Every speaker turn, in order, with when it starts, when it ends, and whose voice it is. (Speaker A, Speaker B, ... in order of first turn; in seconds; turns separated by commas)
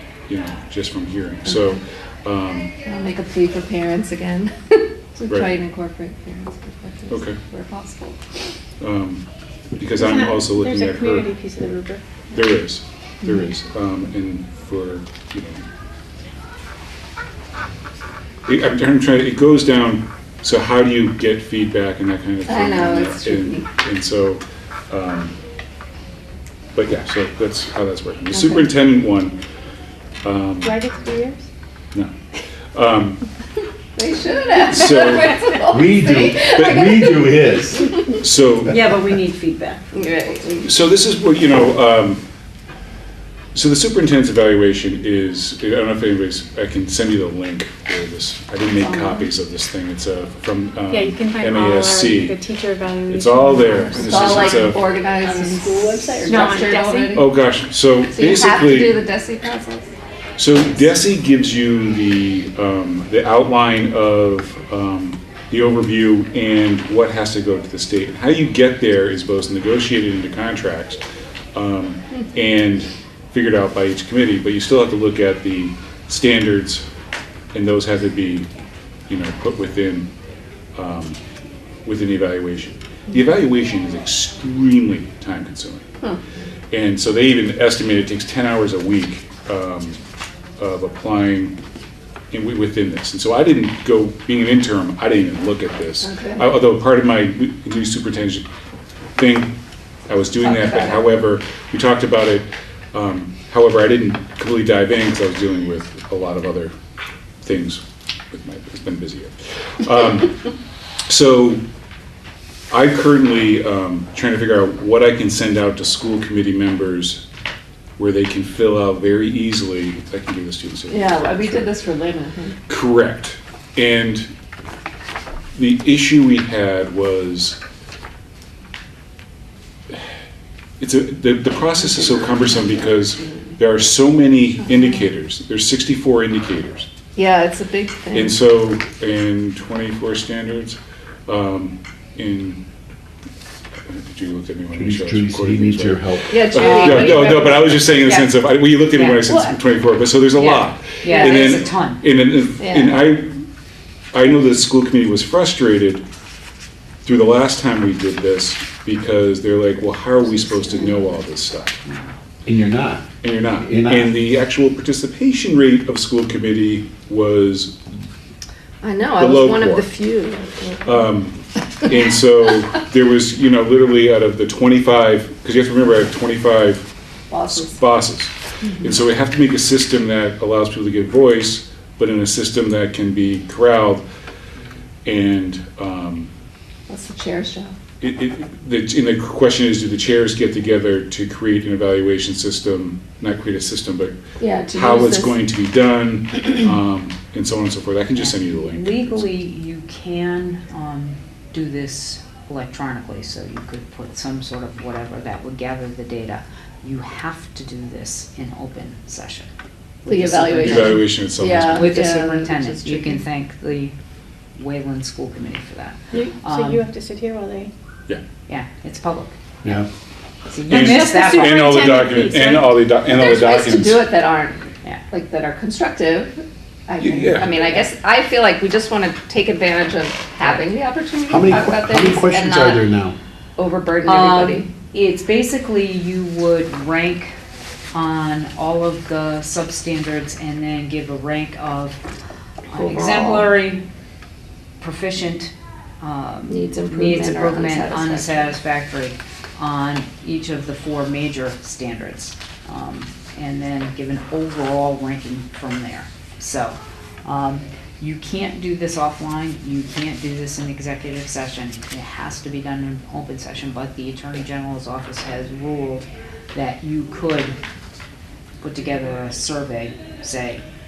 Speaker A: 0.3-2.7, Speaker B: 2.9-8.4, Speaker A: 7.1-7.4, Speaker A: 8.8-9.2, Speaker A: 9.8-11.3, Speaker C: 10.0-12.5, Speaker A: 12.3-15.6, Speaker A: 18.5-25.4, Speaker B: 22.5-23.7, Speaker A: 26.7-29.4, Speaker B: 28.3-28.6, Speaker A: 30.2-30.8, Speaker C: 30.6-31.4, Speaker A: 32.7-33.2, Speaker B: 34.0-38.2, Speaker A: 34.6-35.4, Speaker D: 35.7-38.0, Speaker A: 38.2-38.8, Speaker E: 38.7-39.8, Speaker C: 38.7-39.1, Speaker B: 39.9-40.7, Speaker A: 40.6-42.2, Speaker A: 43.5-52.4, Speaker B: 48.8-49.3, Speaker C: 50.9-57.2, Speaker A: 53.1-54.8, Speaker B: 54.0-57.3, Speaker A: 57.1-59.0, Speaker B: 58.1-59.9, Speaker A: 60.4-71.0, Speaker A: 71.5-76.8, Speaker A: 77.5-78.5, Speaker A: 79.1-80.1, Speaker A: 80.8-81.2, Speaker A: 81.8-85.8, Speaker A: 86.7-90.0, Speaker A: 90.6-91.6, Speaker A: 92.3-98.5, Speaker B: 96.0-96.5, Speaker A: 99.2-99.5, Speaker A: 100.1-106.7, Speaker B: 100.4-101.0, Speaker A: 107.4-110.5, Speaker A: 111.1-111.6, Speaker A: 112.7-117.2, Speaker A: 118.0-121.7, Speaker B: 120.9-122.6, Speaker A: 122.7-124.3, Speaker A: 125.5-127.6, Speaker A: 130.8-136.9, Speaker B: 137.1-138.3, Speaker A: 138.1-142.6, Speaker A: 143.8-153.4, Speaker D: 144.8-147.3, Speaker B: 146.3-148.5, Speaker E: 148.9-149.4, Speaker B: 149.2-149.5, Speaker E: 150.3-152.0, Speaker B: 151.1-151.6, Speaker B: 152.6-153.1, Speaker A: 154.1-156.0, Speaker A: 157.0-161.8, Speaker B: 160.5-160.9, Speaker E: 161.8-162.1, Speaker D: 162.4-164.1, Speaker A: 163.2-167.8, Speaker B: 168.8-171.1, Speaker A: 169.2-169.9, Speaker A: 170.9-176.9, Speaker B: 177.3-177.8, Speaker A: 177.5-184.0, Speaker A: 185.0-186.3, Speaker B: 186.9-187.7, Speaker A: 188.0-194.2, Speaker B: 194.4-195.4, Speaker A: 194.7-199.3, Speaker E: 198.2-209.5, Speaker E: 210.0-211.1, Speaker B: 210.1-213.2, Speaker A: 210.6-212.0, Speaker E: 211.7-213.9, Speaker E: 214.6-216.8, Speaker C: 216.1-217.7, Speaker E: 218.5-219.3, Speaker E: 220.4-222.1, Speaker A: 220.7-224.1, Speaker C: 220.7-222.9, Speaker B: 223.0-232.9, Speaker A: 227.0-227.8, Speaker D: 231.3-233.2, Speaker B: 233.6-234.7, Speaker E: 234.0-237.3, Speaker E: 237.9-242.0, Speaker E: 242.7-243.8, Speaker B: 242.7-243.5, Speaker E: 244.8-267.6, Speaker B: 246.5-248.6, Speaker E: 268.6-270.6